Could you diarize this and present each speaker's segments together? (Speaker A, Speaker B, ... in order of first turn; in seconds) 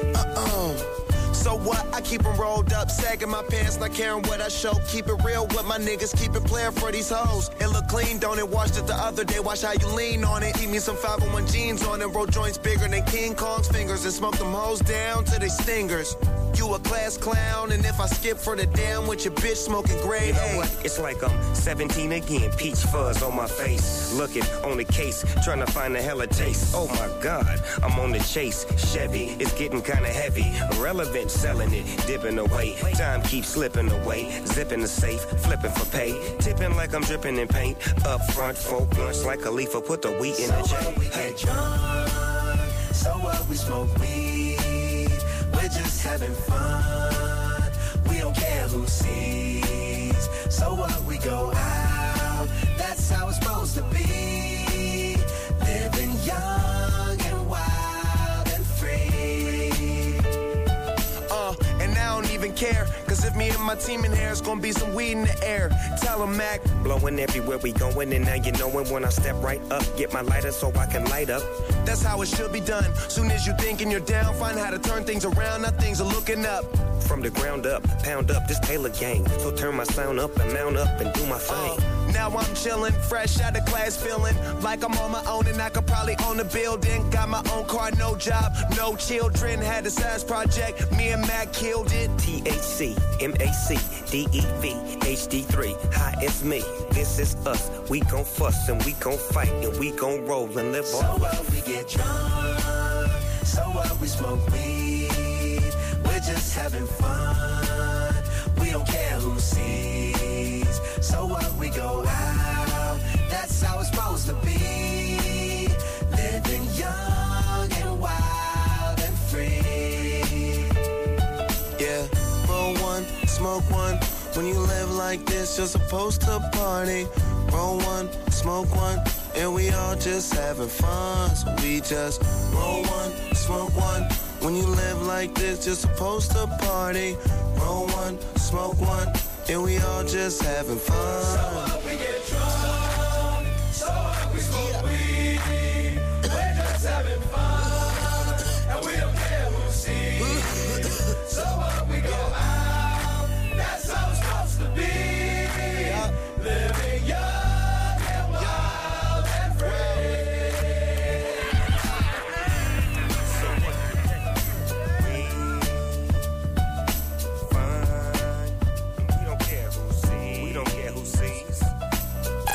Speaker A: 0.1-20.7, 61.3-66.7, 71.8-76.7, 81.5-92.2, 121.8-141.8, 150.2-150.6, 155.8-156.1, 158.3-160.2
Speaker B: 20.2-41.4, 66.7-71.5, 77.0-81.8, 92.2-101.3, 167.4-171.7
Speaker C: 40.3-60.2, 100.8-120.7, 144.3-144.8, 146.6-148.0, 148.8-150.4, 151.8-152.6, 155.5-155.7